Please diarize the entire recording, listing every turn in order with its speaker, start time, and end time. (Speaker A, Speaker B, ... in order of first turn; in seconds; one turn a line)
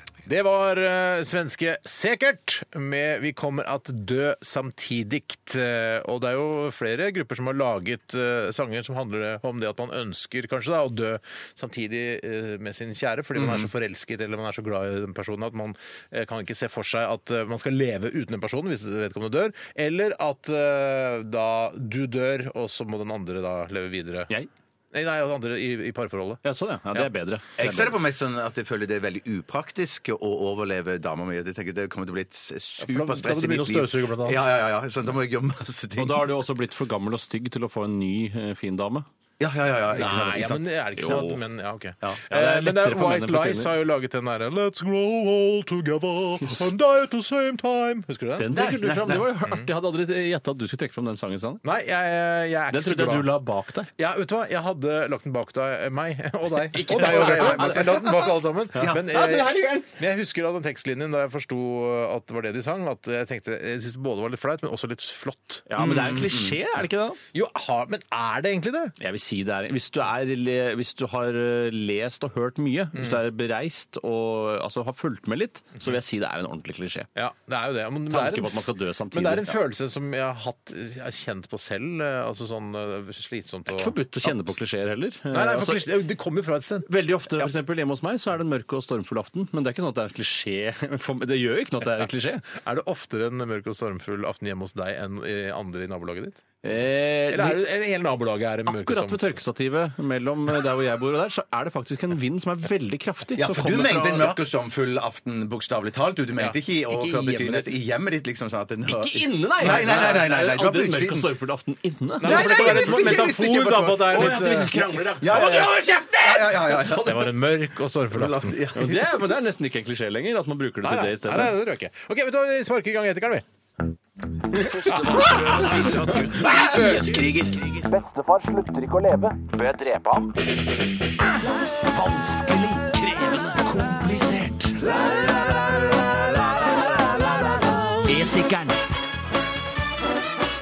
Speaker A: 0.2-24.3
Speaker B: 13.3-13.7
Speaker A: 24.9-26.4
Speaker C: 26.4-27.9
Speaker B: 27.6-36.3
Speaker A: 32.8-34.5
Speaker C: 36.0-39.1
Speaker B: 39.4-40.7
Speaker A: 39.9-48.5
Speaker C: 41.0-41.4
Speaker C: 42.3-43.7
Speaker C: 48.4-51.6
Speaker B: 48.5-49.3
Speaker A: 51.6-53.3
Speaker C: 52.7-53.9
Speaker A: 54.0-66.0
Speaker C: 56.7-58.2
Speaker B: 56.9-59.0
Speaker C: 58.7-59.9
Speaker C: 65.7-67.2
Speaker B: 65.8-66.6
Speaker A: 67.3-68.9
Speaker C: 69.0-77.1
Speaker A: 77.1-84.3
Speaker C: 78.1-79.6
Speaker C: 83.7-86.0
Speaker A: 85.3-86.9
Speaker C: 86.8-92.5
Speaker A: 92.5-99.4
Speaker C: 96.6-97.6
Speaker C: 98.7-104.3
Speaker B: 103.4-111.3
Speaker A: 106.3-107.7
Speaker C: 108.9-113.3
Speaker A: 109.6-110.1
Speaker A: 112.2-114.8
Speaker B: 112.2-117.3
Speaker C: 114.0-117.2
Speaker A: 116.8-118.6
Speaker B: 118.1-119.1
Speaker C: 118.7-121.5
Speaker A: 120.8-123.4
Speaker C: 124.5-130.4
Speaker A: 124.8-126.0
Speaker B: 125.2-126.7
Speaker C: 131.9-134.9
Speaker C: 138.0-138.8